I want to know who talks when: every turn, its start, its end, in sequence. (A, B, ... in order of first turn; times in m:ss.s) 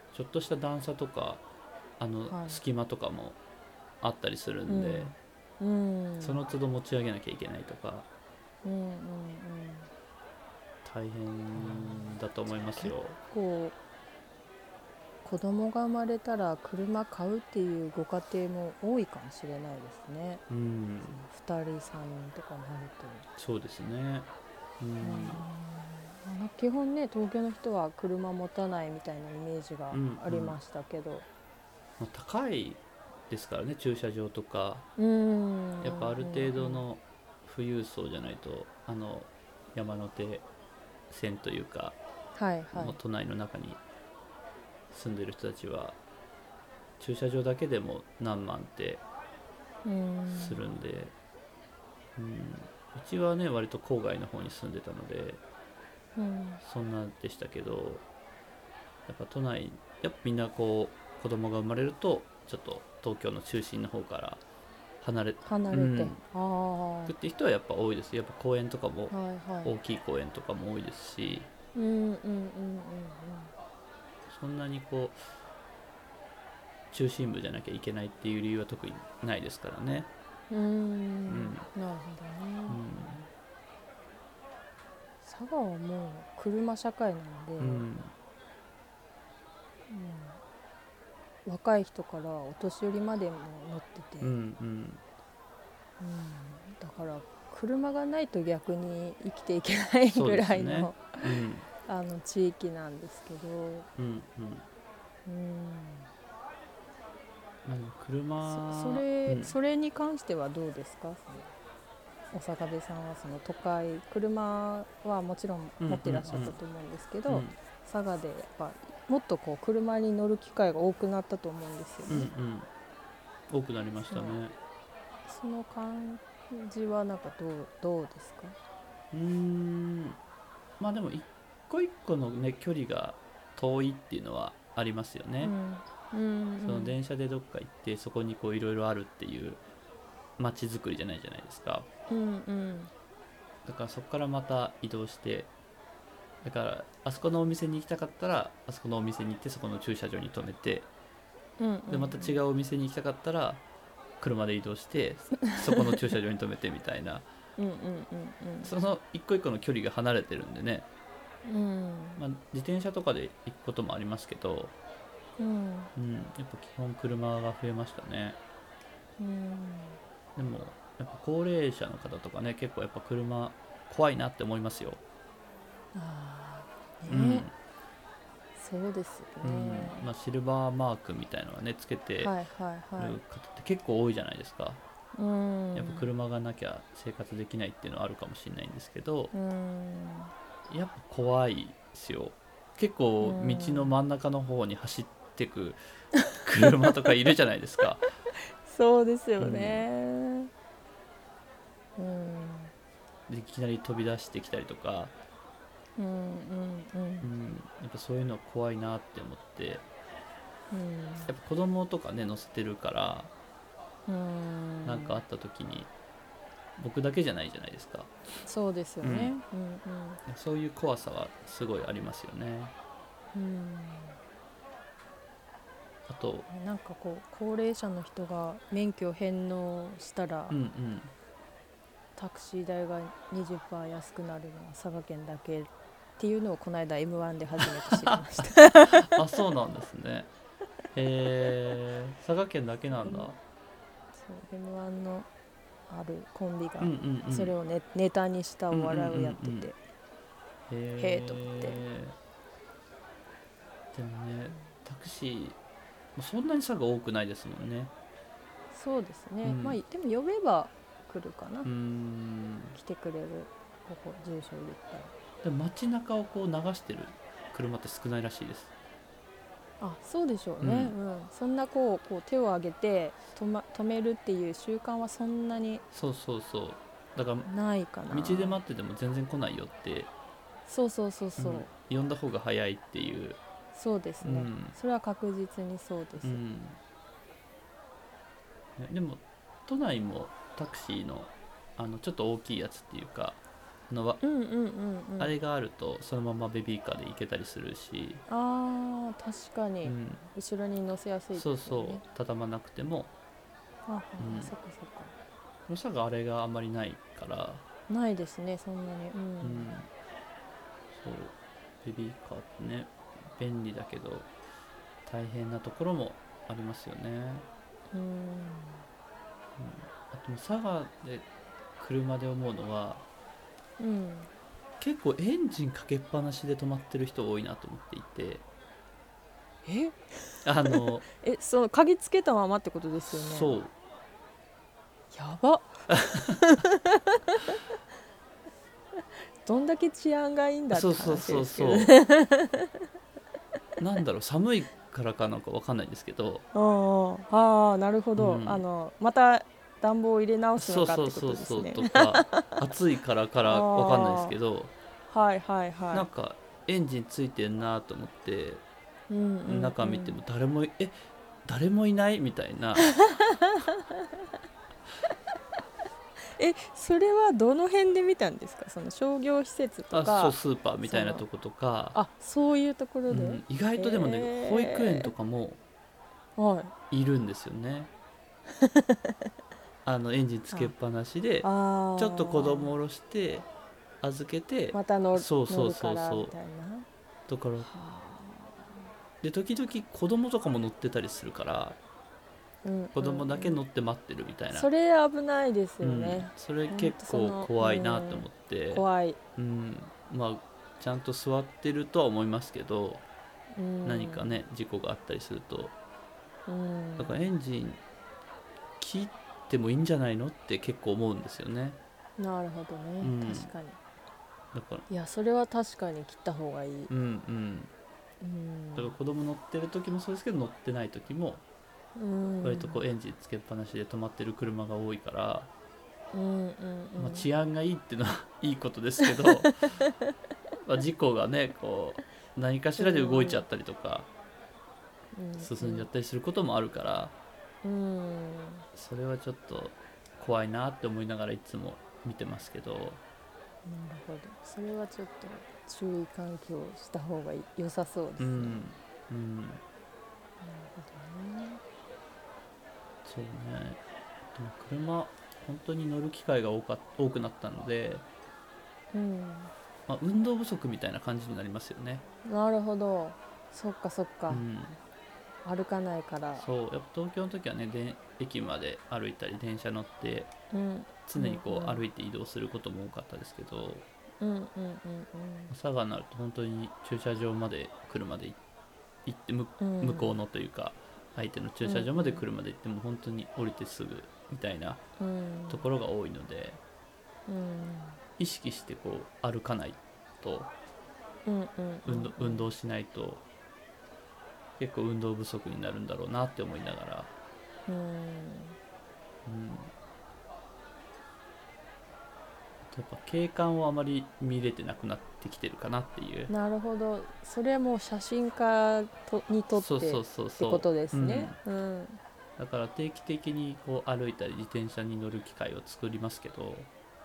0:00.1-0:01.4 A
0:02.0-0:03.4 A
0:02.3-0:02.6 B
0:04.0-0:05.2 A
0:04.7-0:06.4 B
0:06.2-0:08.1 A
0:08.6-0:09.9 B
0:10.8-0:13.2 A
0:11.6-0:13.8 B
0:15.2-0:20.4 B
0:20.5-0:21.3 A
0:21.3-0:23.3 B
0:23.4-0:24.3 A
0:24.8-0:25.4 A
0:25.0-0:31.3 B
0:29.9-0:30.6 A
0:32.0-0:34.9 A
0:35.0-0:36.9 B
0:35.8-0:40.5 A
0:41.1-0:42.0 A
0:42.4-0:43.0 B
0:42.7-0:43.8 A
0:44.9-0:46.0 A
0:47.0-0:49.0 A
0:49.8-0:50.6 B
0:50.3-0:51.2 A
0:52.2-0:55.4 A
0:56.2-0:56.6 B
0:56.6-0:58.0 A
0:59.1-1:04.4 A
1:05.0-1:06.2 A
1:05.4-1:07.1 B
1:07.1-1:11.5 A
1:09.1-1:09.8 B
1:11.8-1:13.5 B
1:14.3-1:15.2 A
1:16.9-1:20.1 A
1:20.5-1:22.8 B
1:21.3-1:21.7 A
1:22.7-1:23.3 A
1:25.2-1:27.9 B
1:27.6-1:28.1 A
1:29.9-1:30.4 B
1:31.4-1:34.4 B
1:34.2-1:35.0 A
1:36.0-1:43.9 B
1:40.1-1:41.7 A
1:44.0-1:44.7 A
1:45.3-1:46.1 B
1:47.6-1:49.6 A
1:48.4-1:51.5 B
1:52.3-2:02.3 B
1:55.8-1:56.6 A
1:57.3-1:57.6 A
2:02.1-2:02.7 A
2:03.5-2:04.6 A
2:04.1-2:04.4 B
2:05.3-2:08.6 B
2:09.1-2:10.2 A
2:10.8-2:15.5 A
2:15.4-2:17.0 B
2:16.6-2:19.6 A
2:20.4-2:21.9 A
2:22.1-2:22.9 B
2:23.6-2:25.5 A
2:26.4-2:30.9 A
2:31.6-2:32.4 B
2:31.9-2:33.6 A
2:34.2-2:37.3 A
2:35.5-2:35.9 B
2:37.6-2:38.7 B
2:38.6-2:40.9 A
2:41.4-2:42.2 B
2:42.2-2:44.7 A
2:45.4-2:45.9 B
2:46.0-2:48.4 A
2:49.2-2:50.0 B
2:50.4-2:55.0 A
2:55.9-2:57.5 B
2:57.1-2:57.5 A
2:58.6-3:00.1 B
2:59.4-3:02.3 A
3:02.2-3:03.2 B
3:03.0-3:04.8 A
3:05.2-3:06.1 B
3:05.7-3:09.3 A
3:09.3-3:10.3 B
3:10.7-3:15.8 A
3:13.2-3:14.0 B
3:16.4-3:18.1 A
3:18.6-3:20.5 B
3:19.4-3:19.8 A
3:22.0-3:22.7 B
3:23.3-3:25.2 A
3:26.0-3:27.3 B
3:27.2-3:29.8 A
3:30.7-3:31.3 B
3:31.3-3:33.3 A
3:34.1-3:35.2 B
3:34.8-3:35.9 A
3:36.8-3:38.1 A
3:38.4-3:40.2 B
3:39.0-3:39.4 A
3:40.3-3:42.7 A
3:43.3-3:44.2 B
3:46.1-3:46.5 A
3:46.5-3:50.6 B
3:50.5-3:51.1 A
3:52.2-3:59.2 B
3:57.6-4:00.3 A
4:00.9-4:03.4 A
4:03.0-4:03.3 B
4:04.2-4:05.3 B
4:05.9-4:09.8 B
4:06.8-4:07.5 A
4:08.7-4:09.7 A
4:10.7-4:12.2 A
4:11.0-4:11.8 B
4:13.9-4:15.6 A
4:16.2-4:17.9 A
4:18.7-4:21.7 B
4:19.4-4:19.8 A
4:21.6-4:22.8 A
4:22.7-4:25.1 B
4:25.4-4:28.7 A
4:29.8-4:35.8 B
4:30.6-4:31.0 A
4:35.9-4:37.5 A
4:37.5-4:38.6 B
4:38.1-4:40.1 A
4:40.7-4:41.7 B
4:41.4-4:43.4 A
4:43.7-4:46.4 B
4:44.2-4:44.8 A
4:46.2-4:46.8 A
4:48.8-4:54.2 A
4:54.2-4:55.3 B
4:55.2-4:58.2 A
4:58.3-5:02.0 B
4:59.8-5:00.3 A
5:01.3-5:03.1 A
5:03.9-5:05.1 B
5:04.2-5:04.5 A
5:05.7-5:07.6 A
5:07.9-5:09.7 B
5:09.4-5:09.9 A
5:10.9-5:14.3 A
5:15.0-5:17.5 A
5:17.9-5:18.9 B
5:19.6-5:21.3 A
5:21.8-5:23.0 A
5:23.8-5:24.3 B
5:24.8-5:28.4 A
5:29.6-5:33.5 B
5:30.4-5:31.1 A
5:33.1-5:33.7 A
5:35.1-5:37.6 B
5:39.4-5:42.8 B
5:40.7-5:42.0 A
5:43.8-5:46.4 A
5:46.5-5:52.6 B
5:48.2-5:48.6 A
5:50.6-5:54.7 A
5:53.4-5:54.4 B
5:55.1-5:56.1 B
5:55.9-5:58.6 A
5:59.1-6:00.2 B
5:59.5-6:02.9 A
6:02.8-6:04.0 B
6:06.3-6:11.2 B
6:09.9-6:12.0 A
6:11.9-6:15.1 B
6:13.1-6:15.6 A
6:16.4-6:16.7 B
6:16.9-6:17.9 A
6:18.6-6:19.2 B
6:19.8-6:23.5 A
6:21.4-6:22.7 B
6:24.0-6:26.4 A
6:24.7-6:26.9 B
6:27.3-6:27.7 A
6:27.6-6:28.8 B
6:29.2-6:31.8 A
6:32.6-6:33.6 B
6:33.0-6:34.7 A
6:34.5-6:39.2 B
6:35.8-6:43.0 A
6:43.5-6:44.4 B
6:43.8-6:45.7 A
6:46.5-6:47.3 B
6:47.0-6:47.8 A
6:48.8-6:51.8 A
6:52.2-6:53.8 B
6:53.0-6:53.5 A
6:54.5-6:54.9 A
6:54.9-6:56.9 B
6:56.9-6:57.7 A
6:58.2-6:58.9 B
6:58.8-7:01.4 A
7:02.0-7:02.8 B
7:02.4-7:05.5 A
7:06.1-7:07.3 B
7:07.0-7:09.7 A
7:09.4-7:10.0 B
7:10.6-7:14.1 A
7:12.8-7:13.5 B
7:15.2-7:15.9 B
7:15.4-7:17.1 A
7:17.6-7:18.6 B
7:18.8-7:23.0 A
7:23.6-7:28.6 B
7:28.2-7:29.6 A
7:30.4-7:31.6 B
7:33.0-7:38.1 A
7:38.9-7:39.5 B
7:39.9-7:42.0 A
7:42.2-7:44.4 B
7:44.3-7:44.8 A
7:45.4-7:46.4 B
7:46.4-7:50.3 A
7:50.5-7:51.8 B
7:51.1-7:53.9 A
7:54.2-7:55.5 B
7:55.5-7:58.4 A
7:59.0-8:04.9 A
7:59.6-8:00.2 B
8:01.6-8:02.2 B
8:05.0-8:05.7 B
8:05.5-8:06.6 A
8:07.3-8:08.0 B
8:08.2-8:10.5 A
8:11.3-8:12.5 B
8:11.9-8:13.2 A
8:14.6-8:17.1 A
8:17.7-8:18.6 B
8:19.3-8:19.7 A
8:22.6-8:26.3 A
8:26.3-8:32.0 B
8:29.5-8:31.4 A
8:32.4-8:36.7 A